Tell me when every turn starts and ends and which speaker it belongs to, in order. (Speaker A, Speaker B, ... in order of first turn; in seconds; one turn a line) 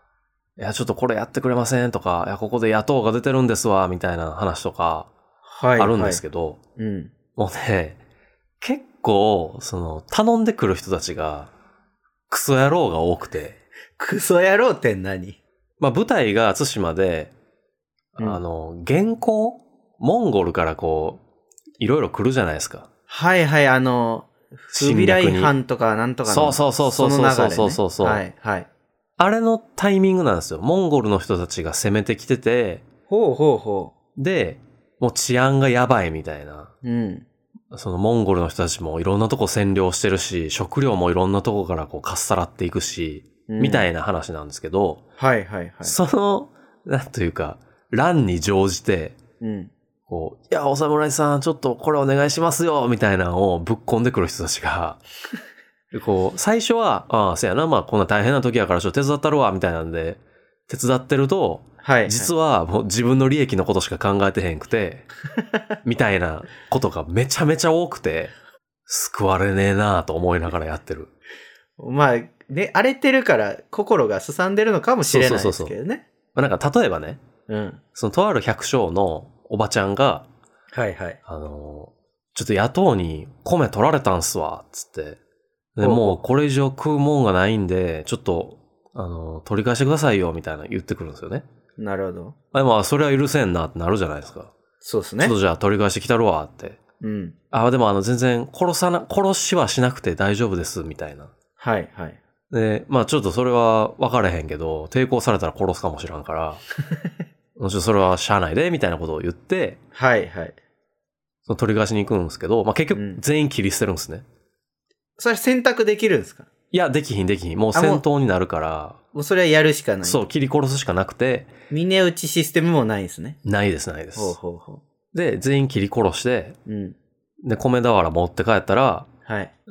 Speaker A: 0.6-5.1
Speaker B: 5.5-6.2
Speaker A: 5.8-6.6
Speaker B: 6.8-7.1
Speaker A: 7.3-8.0
Speaker A: 8.6-11.5
Speaker A: 12.3-13.6
Speaker B: 14.0-15.4
Speaker A: 15.8-17.3
Speaker A: 18.1-21.2
Speaker A: 21.8-22.9
Speaker B: 23.1-28.7
Speaker A: 24.7-25.5
Speaker A: 26.3-28.2
Speaker A: 29.2-32.8
Speaker B: 33.1-33.9
Speaker A: 34.1-36.7
Speaker B: 36.8-37.2
Speaker A: 37.7-45.0
Speaker B: 43.5-43.9
Speaker B: 45.2-46.0
Speaker A: 45.8-49.2
Speaker B: 49.4-49.7
Speaker A: 50.1-55.0
Speaker A: 55.9-65.1
Speaker B: 61.8-62.3
Speaker A: 65.8-68.3
Speaker A: 68.9-71.1
Speaker B: 71.8-76.0
Speaker A: 75.0-75.7
Speaker A: 76.3-77.2
Speaker B: 77.5-77.8
Speaker A: 77.9-80.3
Speaker B: 80.7-81.2
Speaker A: 81.2-85.2
Speaker A: 85.8-91.4
Speaker B: 85.8-86.2
Speaker B: 91.8-92.3
Speaker A: 92.5-94.5
Speaker B: 94.8-95.3
Speaker A: 95.2-96.8
Speaker B: 97.0-97.3
Speaker A: 97.5-101.3
Speaker B: 101.6-102.2
Speaker A: 102.5-106.6
Speaker A: 107.6-109.8
Speaker B: 109.9-110.5
Speaker A: 111.5-114.2
Speaker B: 112.9-113.2
Speaker B: 115.2-116.5
Speaker A: 116.7-119.0
Speaker B: 117.7-118.0
Speaker B: 119.1-120.2
Speaker A: 120.0-121.5
Speaker B: 121.7-123.4
Speaker A: 123.4-124.3
Speaker B: 124.2-124.8
Speaker A: 125.1-126.6
Speaker B: 126.7-127.0
Speaker A: 127.4-129.1
Speaker B: 129.2-129.5